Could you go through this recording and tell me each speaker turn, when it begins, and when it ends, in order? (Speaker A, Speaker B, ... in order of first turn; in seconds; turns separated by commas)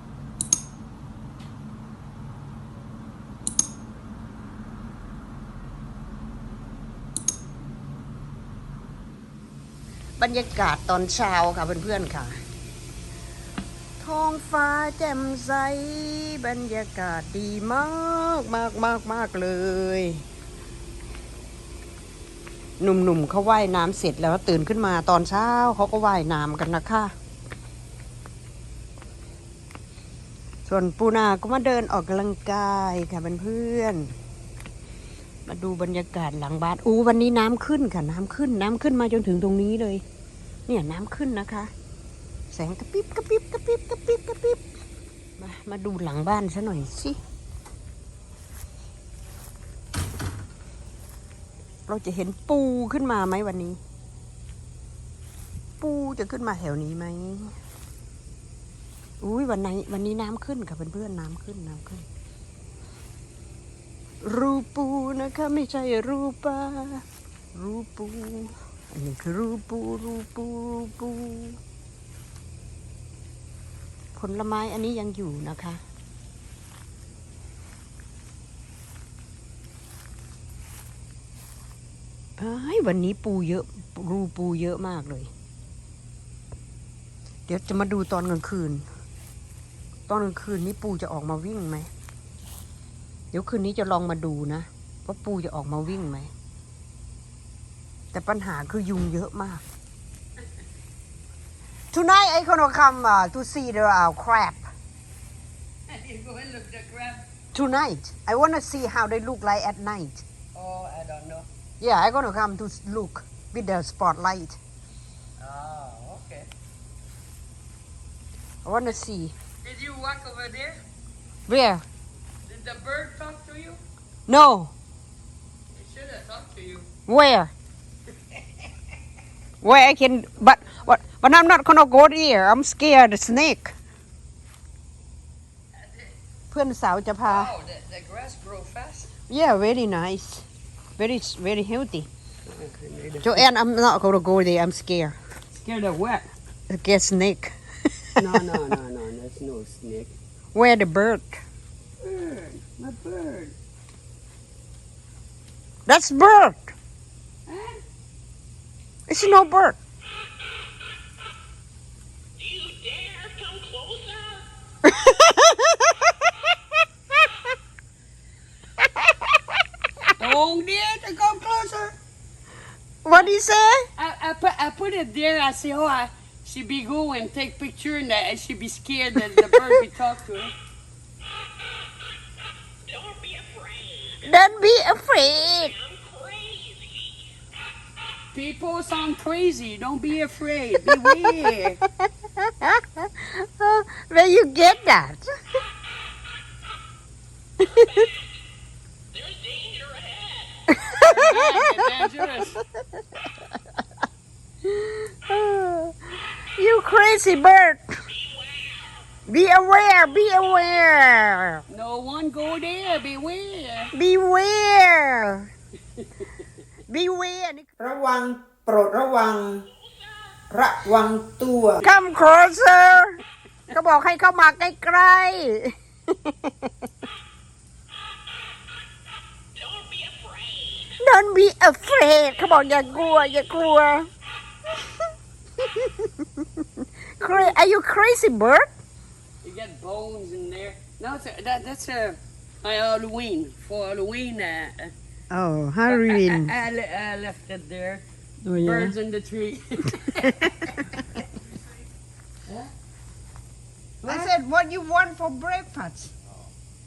Speaker A: 10.2-12.4, Speaker A: 14.0-20.2, Speaker A: 22.8-27.1, Speaker A: 30.7-34.1, Speaker A: 35.5-40.0, Speaker A: 40.7-41.7, Speaker A: 42.5-44.6, Speaker A: 45.4-47.2, Speaker A: 51.9-53.8, Speaker A: 55.8-57.5, Speaker A: 59.2-62.0, Speaker A: 64.2-71.6, Speaker A: 74.2-75.8, Speaker A: 82.4-85.3, Speaker A: 87.5-88.8, Speaker A: 90.1-91.9, Speaker A: 93.3-96.3, Speaker A: 98.1-99.6, Speaker A: 101.9-104.7, Speaker B: 105.9-107.2, Speaker A: 107.5-110.2, Speaker B: 110.5-111.5, Speaker A: 111.8-114.6, Speaker B: 115.4-116.5, Speaker A: 118.7-119.3, Speaker B: 119.6-120.8, Speaker A: 121.5-121.8, Speaker B: 122.4-123.8, Speaker A: 124.3-124.7, Speaker B: 125.7-126.9, Speaker A: 127.1-127.5, Speaker A: 129.6-133.8, Speaker B: 135.8-136.1, Speaker A: 136.5-137.5, Speaker B: 137.3-139.1, Speaker A: 139.3-140.5, Speaker A: 141.0-142.1, Speaker B: 142.5-143.4, Speaker A: 143.2-145.2, Speaker B: 145.5-146.3, Speaker A: 146.7-148.2, Speaker B: 148.2-150.2, Speaker A: 150.5-151.4, Speaker B: 152.0-153.5, Speaker A: 155.9-156.7, Speaker B: 157.5-157.8, Speaker A: 159.1-159.8, Speaker B: 163.0-163.3, Speaker C: 163.6-163.9, Speaker A: 164.8-166.5, Speaker B: 170.2-171.9, Speaker A: 173.1-173.9, Speaker B: 174.0-180.5, Speaker C: 182.9-184.0, Speaker A: 184.2-185.8, Speaker C: 186.0-187.1, Speaker B: 188.3-191.8, Speaker A: 190.9-195.3, Speaker A: 197.6-198.1, Speaker C: 199.2-200.5, Speaker A: 200.7-201.6, Speaker B: 201.0-202.6, Speaker A: 204.6-208.0, Speaker A: 209.2-211.6, Speaker B: 211.7-213.9, Speaker A: 213.9-215.5, Speaker A: 216.9-219.7, Speaker A: 220.5-223.2, Speaker A: 223.7-226.7, Speaker C: 229.7-230.6, Speaker A: 230.8-234.1, Speaker A: 235.6-236.7, Speaker A: 237.2-238.7, Speaker B: 237.2-237.6, Speaker B: 239.4-244.9, Speaker A: 245.3-246.5, Speaker B: 245.9-248.1, Speaker A: 248.4-248.9, Speaker B: 248.6-250.7, Speaker A: 250.2-250.9, Speaker B: 252.4-252.7, Speaker B: 254.0-254.3, Speaker A: 254.1-256.1